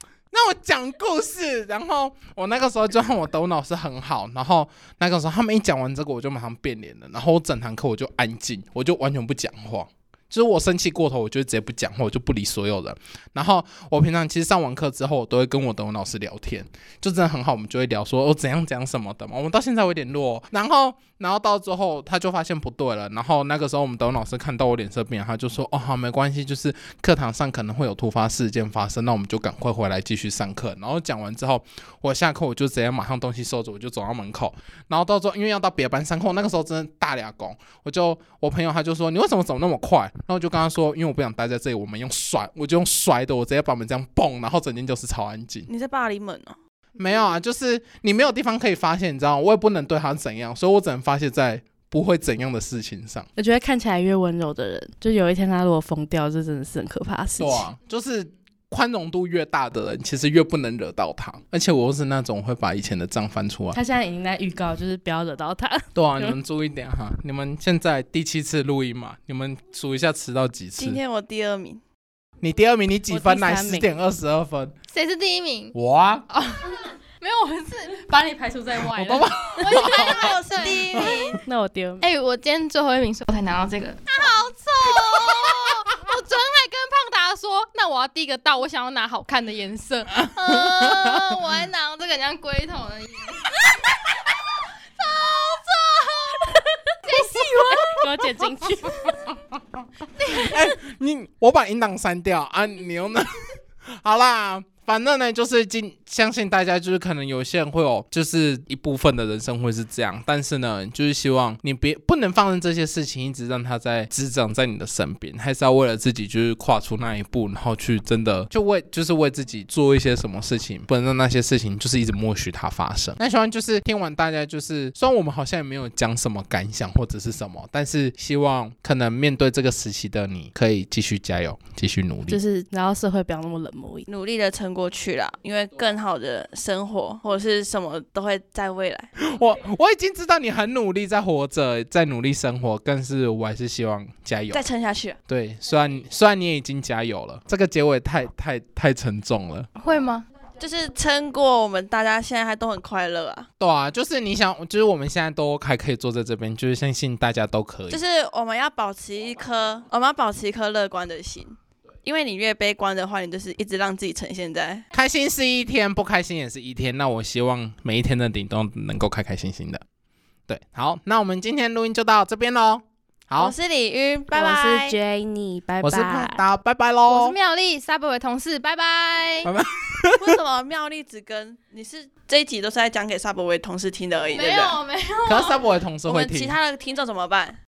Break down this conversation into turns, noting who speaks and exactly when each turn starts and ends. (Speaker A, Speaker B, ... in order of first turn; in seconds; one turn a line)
Speaker A: 0.3-45.7
Speaker B: 45.7-46.6
Speaker A: 47.0-53.3
Speaker C: 53.4-57.7
Speaker A: 57.4-63.8
Speaker C: 63.7-66.4
Speaker A: 65.9-71.0
Speaker B: 70.8-71.8
Speaker A: 72.4-74.7
Speaker C: 73.1-73.9
Speaker D: 74.9-75.7
Speaker A: 75.7-76.2
Speaker D: 76.3-81.4
Speaker A: 78.8-80.3
Speaker B: 79.7-81.4
Speaker C: 81.4-82.1
Speaker D: 82.0-98.3
Speaker C: 97.9-99.2
Speaker D: 100.2-100.5
Speaker A: 100.3-103.3
Speaker A: 103.8-132.4
Speaker C: 132.3-134.1
Speaker B: 134.1-139.1
Speaker A: 139.2-144.6
Speaker B: 144.5-145.2
Speaker A: 145.3-149.7
Speaker D: 149.8-150.2
Speaker B: 150.6-153.5
Speaker A: 153.6-158.0
Speaker B: 157.9-164.9
Speaker A: 164.9-169.8
Speaker A: 170.5-173.5
Speaker B: 173.4-175.0
Speaker C: 174.3-176.4
Speaker A: 175.8-177.3
Speaker D: 177.1-179.5
Speaker A: 179.4-180.4
Speaker B: 180.2-184.8
Speaker D: 184.3-185.6
Speaker A: 185.2-186.6
Speaker B: 186.1-187.6